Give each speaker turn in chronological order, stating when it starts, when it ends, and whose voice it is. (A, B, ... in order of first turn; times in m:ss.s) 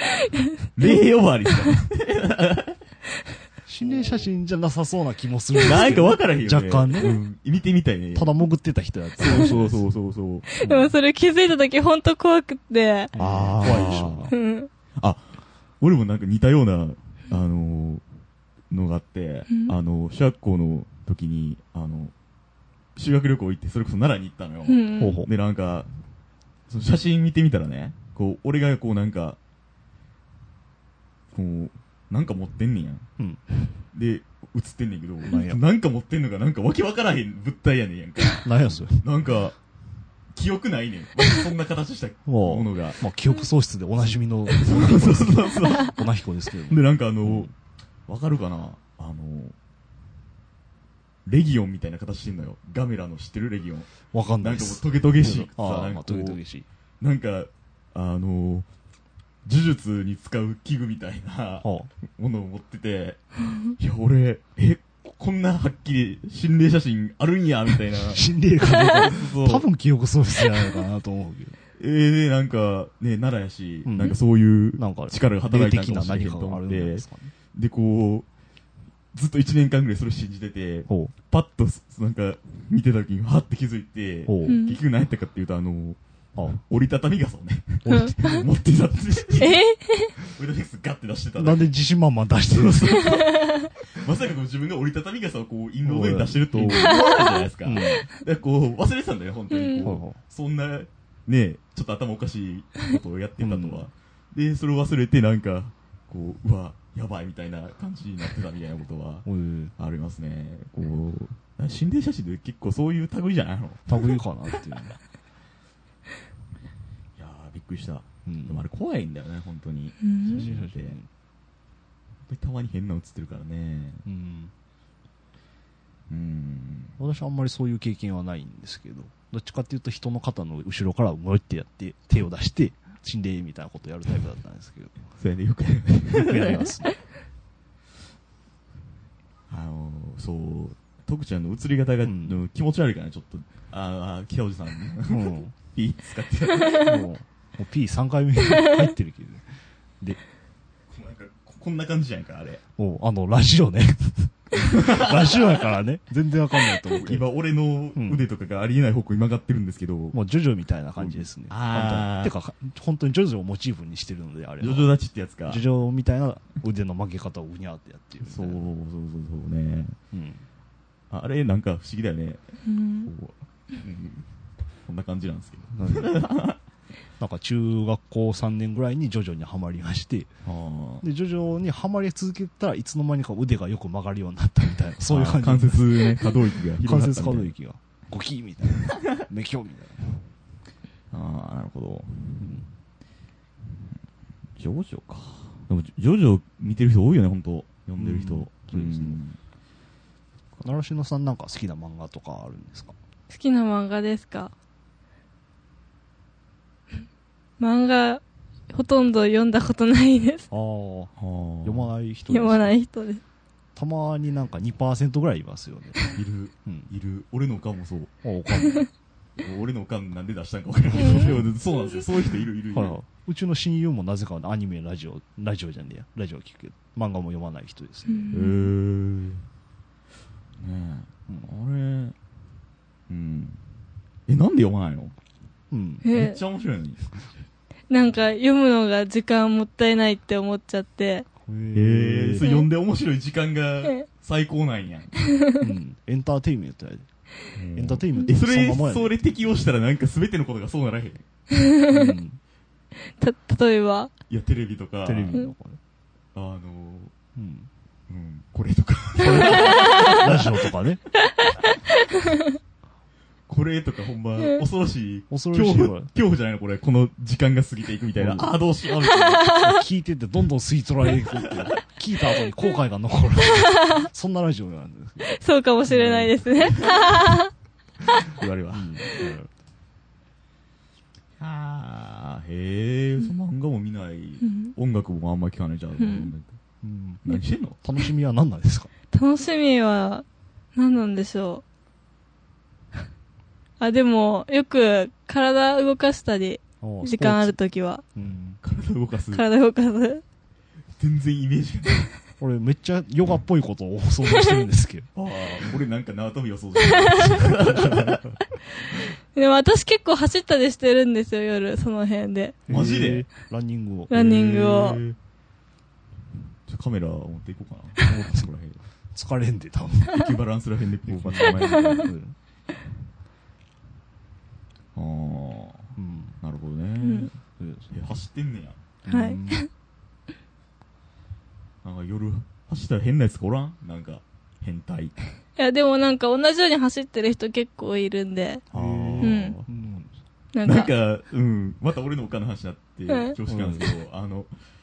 0:00.2-0:00.5 A
0:00.7-0:02.8 B
0:03.6-0:07.2 C
0:03.8-0:04.3 B
0:05.6-0:08.4 B
0:08.1-0:09.9 C
0:09.2-0:10.5 B
0:10.5-0:13.1 A
0:10.6-0:11.0 C
0:13.1-0:14.3 C
0:13.2-0:14.3 B
0:13.6-0:14.7 A
0:15.0-0:18.0 B
0:18.7-0:22.1 B
0:19.5-0:19.7 A
0:23.0-0:25.9 B
0:24.6-0:25.2 A
0:25.0-0:25.3 C
0:26.7-0:29.4 B
0:31.3-0:33.1 B
0:33.2-0:33.4 C
0:33.9-0:39.6 B
0:35.2-0:35.6 C
0:38.4-0:39.1 C
0:40.3-0:43.0 B
0:42.2-0:47.5 C
0:44.5-0:47.5 B
0:48.1-0:49.6 B
0:51.2-0:56.4 B
0:54.1-0:56.6 C
0:57.0-0:58.6 B
0:59.4-1:09.7 B
1:01.6-1:01.9 C
1:08.0-1:11.6 C
1:11.8-1:18.3 B
1:13.8-1:14.2 C
1:14.7-1:17.3 C
1:19.1-1:29.6 B
1:20.9-1:21.1 C
1:24.3-1:24.6 C
1:24.4-1:24.8 A
1:26.4-1:26.6 C
1:27.8-1:28.2 C
1:27.9-1:28.4 A
1:29.4-1:30.1 A
1:30.2-1:31.7 B
1:31.4-1:33.0 C
1:32.5-1:49.2 B
1:33.1-1:33.6 A
1:35.8-1:37.0 C
1:36.7-1:37.5 A
1:37.6-1:38.0 C
1:39.5-1:39.8 A
1:39.8-1:40.2 C
1:43.4-1:43.8 C
1:49.2-1:49.7 C
1:49.8-1:54.1 B
1:53.9-1:55.0 C
1:57.2-2:01.0 B
1:58.2-1:58.6 C
2:00.0-2:00.5 A
2:00.3-2:01.1 C
2:02.2-2:04.0 B
2:04.0-2:04.5 C
2:06.1-2:07.0 B
2:07.0-2:14.9 C
2:15.2-2:16.7 B
2:16.1-2:16.9 C
2:19.5-2:27.0 B
2:22.0-2:22.4 C
2:25.1-2:25.5 C
2:26.8-2:30.2 C
2:30.9-2:32.6 B
2:32.8-2:37.3 C
2:34.6-2:35.3 B
2:36.9-2:40.2 B
2:37.9-2:38.2 C
2:40.1-2:44.9 C
2:41.0-2:42.3 B
2:44.6-2:45.6 B
2:45.4-2:48.6 C
2:48.2-2:50.0 B
2:50.1-2:50.4 C
2:51.1-2:54.3 B
2:52.6-2:53.1 A
2:54.8-2:56.6 B
2:55.7-2:56.2 C
2:57.2-3:00.3 C
3:00.4-3:01.0 B
3:01.0-3:10.2 C
3:05.0-3:07.5 B
3:11.1-3:12.5 B
3:12.4-3:12.6 C
3:14.6-3:19.4 B
3:18.0-3:19.2 C
3:20.6-3:22.9 C
3:23.3-3:24.5 A
3:27.6-3:30.5 A
3:30.5-3:32.8 C
3:31.2-3:31.9 B
3:32.3-3:33.2 A
3:33.7-3:36.0 C
3:36.1-3:38.1 B
3:36.6-3:36.9 C
3:38.2-3:38.9 C
3:39.4-3:43.0 B
3:40.9-3:41.4 A
3:41.1-3:41.4 C
3:42.7-3:48.3 C
3:48.1-3:48.7 A
3:48.3-3:49.4 B
3:50.6-3:52.1 B
3:53.1-3:53.6 B
3:54.3-3:55.1 B
3:55.7-3:56.0 C
3:56.0-3:56.4 A
3:56.1-3:57.1 B
3:57.9-4:01.3 A
4:01.4-4:02.5 C
4:01.7-4:05.1 B
4:02.4-4:02.7 A
4:05.6-4:07.1 C
4:07.5-4:11.2 B
4:07.7-4:09.2 C
4:11.9-4:12.4 C
4:13.2-4:14.1 A
4:14.3-4:15.4 B
4:15.0-4:15.8 C
4:16.3-4:17.1 B
4:17.4-4:17.7 C
4:18.1-4:20.6 B
4:19.2-4:21.0 C
4:19.6-4:20.2 A
4:23.5-4:29.6 B
4:25.3-4:26.1 C
4:28.2-4:28.5 C
4:29.5-4:35.4 C
4:35.2-4:37.5 A
4:35.9-4:36.3 C
4:35.9-4:37.1 B
4:38.3-4:39.1 B
4:38.7-4:39.5 C
4:41.4-4:46.5 B
4:44.4-4:44.7 A
4:46.0-4:46.3 A
4:46.8-4:47.2 C
4:47.2-4:47.8 B
4:47.8-4:48.9 C
4:49.1-4:51.6 A
4:53.8-4:58.0 A
4:56.8-4:57.6 C
4:58.1-4:58.6 C
4:58.6-4:59.4 B
4:59.3-5:00.2 A
5:01.0-5:02.1 B
5:02.4-5:05.1 C
5:05.1-5:08.4 B
5:06.9-5:07.5 A
5:09.3-5:12.6 A
5:12.7-5:14.3 C
5:12.7-5:13.3 B
5:14.1-5:15.0 A
5:14.1-5:15.2 B
5:16.7-5:18.8 B
5:18.0-5:18.5 C
5:19.1-5:20.3 C
5:20.1-5:22.1 B
5:21.0-5:22.3 C
5:24.9-5:27.4 B
5:26.0-5:26.4 C
5:27.0-5:27.3 A
5:27.6-5:28.0 C
5:27.9-5:28.8 B
5:29.0-5:29.6 C
5:29.1-5:29.7 A
5:31.8-5:35.1 B
5:35.6-5:38.6 A
5:38.7-5:39.6 B
5:38.7-5:40.1 C
5:39.2-5:39.6 A
5:40.5-5:40.9 A
5:40.6-5:44.5 B
5:43.1-5:43.4 A
5:43.5-5:43.9 C